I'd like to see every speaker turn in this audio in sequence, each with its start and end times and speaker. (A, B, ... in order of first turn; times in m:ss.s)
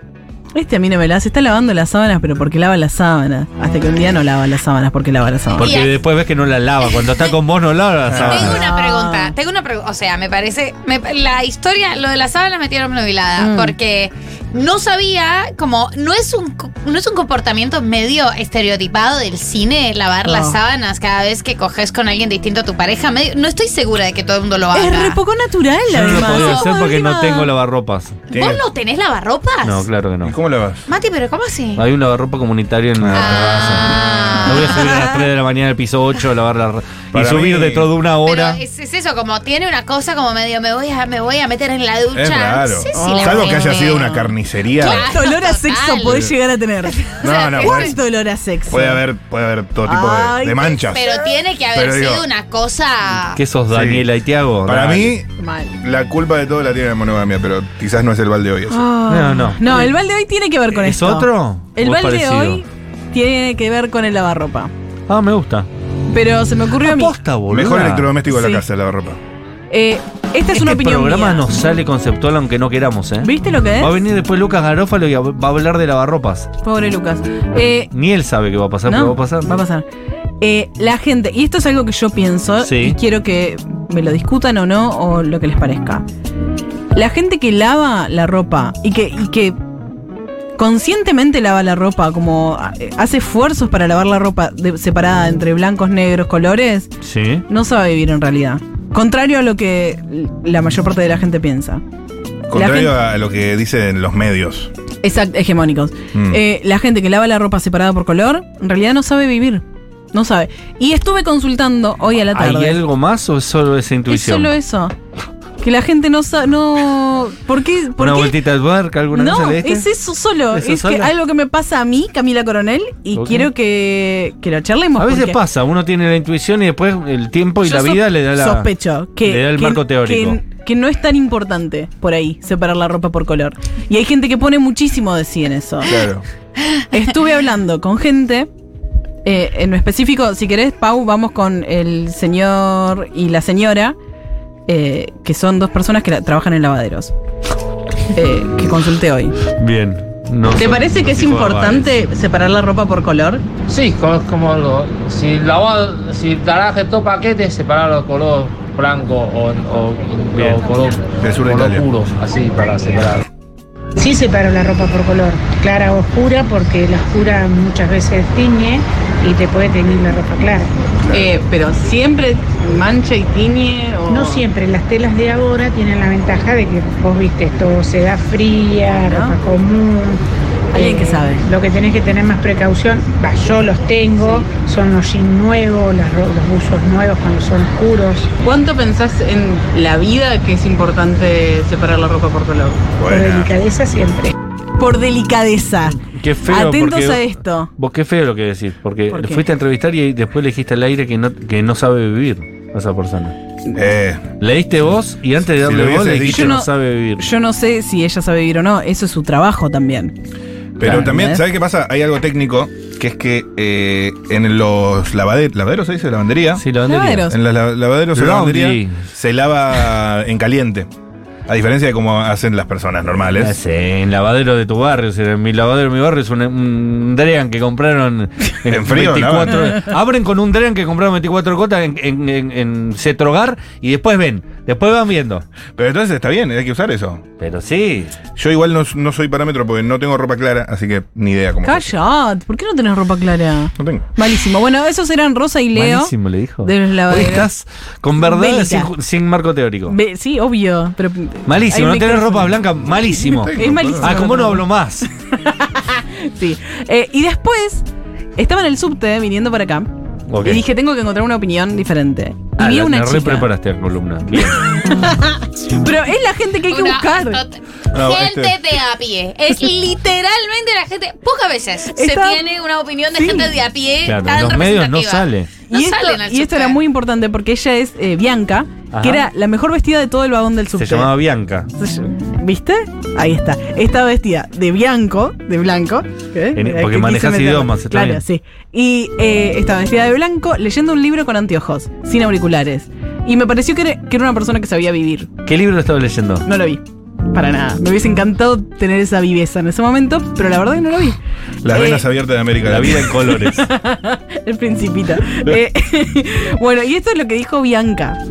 0:00.5-0:05.7 A
0:05.6-0:06.0 B
0:05.6-0:08.6 C
0:06.8-0:07.4 B
0:08.1-0:08.6 D
0:08.2-0:25.2 B
0:08.4-0:09.3 A
0:13.4-0:13.7 A
0:20.2-0:20.6 A
0:24.7-0:27.5 A
0:25.9-0:28.2 C
0:26.2-0:26.7 B
0:28.3-0:28.6 D
0:28.3-0:29.8 B
0:29.6-0:30.3 C
0:30.2-0:30.8 D
0:30.9-0:31.8 B
0:31.8-0:38.6 C
0:33.0-0:33.8 D
0:33.2-0:35.1 B
0:37.1-0:37.9 D
0:38.2-0:46.3 B
0:42.1-0:45.1 D
0:42.9-0:43.6 A
0:44.8-0:47.0 A
0:46.0-0:46.3 D
0:46.9-0:48.0 B
0:47.2-0:48.0 D
0:47.6-0:49.0 A
0:48.7-0:51.1 D
0:49.8-0:51.1 A
0:50.9-0:53.4 B
0:51.7-0:52.3 D
0:53.4-0:55.2 C
0:53.7-0:54.1 D
0:54.6-0:55.2 D
0:55.4-0:55.8 A
0:55.8-0:58.8 D
0:58.7-1:04.7 A
0:59.1-0:59.9 C
1:00.7-1:02.6 C
1:05.1-1:05.7 C
1:06.1-1:07.1 A
1:06.8-1:08.1 C
1:07.5-1:09.2 D
1:08.3-1:08.6 A
1:09.7-1:11.5 A
1:10.5-1:16.5 C
1:13.2-1:14.0 A
1:16.6-1:17.9 A
1:17.9-1:19.5 C
1:18.8-1:19.8 A
1:20.4-1:26.0 A
1:22.6-1:23.0 C
1:26.9-1:29.6 A
1:30.6-1:36.9 A
1:37.0-1:37.4 C
1:37.5-1:41.8 A
1:42.5-1:44.7 D
1:42.5-1:43.0 A
1:45.0-1:52.8 A
1:46.1-1:46.4 D
1:52.3-1:54.5 C
1:54.1-1:54.9 A
1:55.6-1:58.4 A
1:58.0-1:59.9 C
1:59.1-2:05.4 A
2:00.5-2:01.1 C
2:03.1-2:03.5 C
2:05.0-2:08.7 C
2:07.6-2:16.0 A
2:09.2-2:10.4 C
2:15.8-2:16.2 D
2:16.9-2:18.5 A
2:19.2-2:24.0 A
2:24.7-2:27.1 A
2:28.1-2:29.3 A
2:29.6-2:31.9 C
2:30.5-2:33.4 A
2:33.7-2:43.2 E
2:41.2-2:41.9 D
2:44.0-2:50.7 F
2:51.1-2:54.4 A
2:54.1-3:00.2 F
2:58.9-2:59.4 A
3:00.7-3:01.4 A
3:00.8-3:08.3 F
3:04.1-3:04.5 A
3:08.4-3:12.8 A
3:13.0-3:13.5 D
3:13.1-3:14.3 F
3:14.8-3:17.7 A
3:16.0-3:23.3 C
3:19.1-3:19.5 A
3:23.7-3:24.2 D
3:24.4-3:27.2 C
3:25.6-3:26.6 D
3:26.2-3:30.1 A
3:30.8-3:36.6 D
3:30.8-3:31.4 A
3:36.6-3:37.3 C
3:36.8-3:37.4 A
3:37.3-3:40.9 D
3:38.1-3:39.0 C
3:41.5-3:43.6 D
3:43.4-3:55.4 C
3:48.7-3:49.6 D
3:55.8-3:57.2 D
3:57.4-3:58.2 C
3:58.3-4:01.9 D
4:01.6-4:07.5 A
4:03.8-4:04.0 D
4:05.8-4:10.0 C
4:08.2-4:08.9 A
4:09.9-4:12.6 A
4:11.4-4:15.1 C
4:13.3-4:14.2 D
4:13.3-4:14.6 A
4:15.3-4:17.8 A
4:18.4-4:23.5 A
4:20.3-4:20.6 C
4:22.6-4:24.7 C
4:24.4-4:27.4 A
4:26.7-4:36.8 B
4:27.9-4:28.6 D
4:31.9-4:32.4 A
4:33.1-4:33.5 A
4:34.0-4:35.6 C
4:35.7-4:41.1 A
4:38.9-4:39.2 C
4:40.8-4:41.7 C
4:41.8-4:55.3 A
4:46.6-4:48.2 C
4:55.4-4:56.4 C
4:56.4-5:01.2 A
5:01.6-5:03.2 D
5:01.7-5:02.1 A
5:02.6-5:03.6 C
5:03.2-5:08.2 A